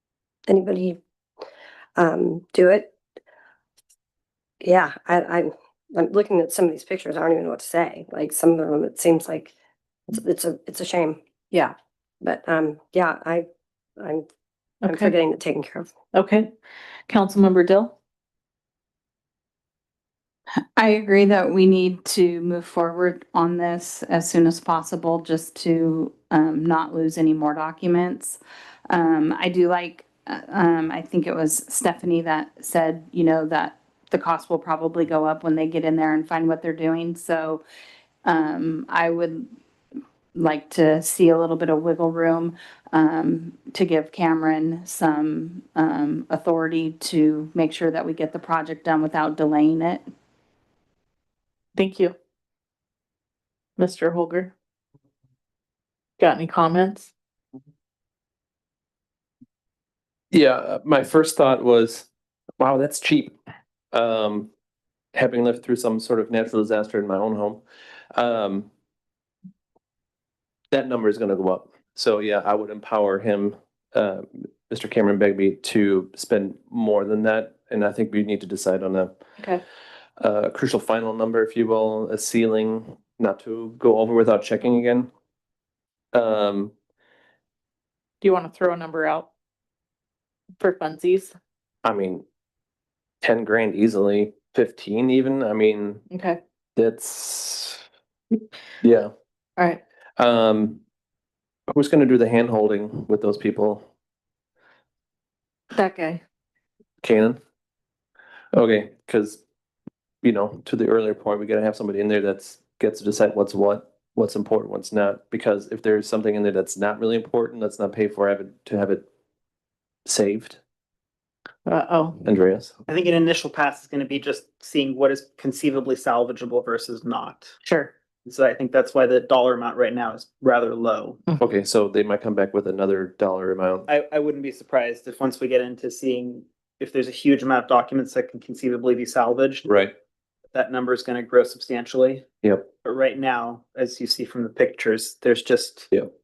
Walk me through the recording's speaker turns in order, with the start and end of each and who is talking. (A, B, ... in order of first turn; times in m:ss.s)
0:00.5-0:01.0 A
0:02.0-0:02.9 A
0:04.6-0:09.5 A
0:10.1-0:11.2 A
0:12.2-0:13.5 A
0:14.0-0:14.3 A
0:14.8-0:15.1 B
0:14.9-0:15.9 A
0:16.1-0:16.5 B
0:17.1-0:17.9 B
0:20.8-0:28.4 C
0:28.9-0:37.6 C
0:38.2-0:39.5 C
0:40.3-0:50.0 C
0:51.7-0:52.1 B
0:53.8-0:54.5 B
0:56.2-0:57.1 B
1:00.3-1:02.1 D
1:02.6-1:03.3 D
1:03.9-1:04.5 D
1:05.1-1:07.6 D
1:08.1-1:08.7 D
1:10.7-1:19.1 D
1:20.2-1:25.1 D
1:26.1-1:26.7 D
1:28.2-1:29.3 B
1:30.6-1:31.3 B
1:31.8-1:32.2 D
1:33.2-1:36.0 D
1:36.1-1:36.4 B
1:36.8-1:37.8 D
1:38.8-1:39.1 D
1:40.2-1:40.8 D
1:41.7-1:43.9 D
1:45.7-1:46.2 B
1:47.0-1:47.4 D
1:48.5-1:49.4 D
1:50.2-1:59.0 D
2:00.0-2:00.6 D
2:01.6-2:02.2 B
2:02.2-2:02.7 D
2:02.9-2:07.5 E
2:07.6-2:07.9 B
2:08.2-2:11.2 E
2:11.4-2:13.9 D
2:13.9-2:19.7 E
2:19.6-2:19.9 D
2:20.5-2:22.2 E
2:22.8-2:25.9 E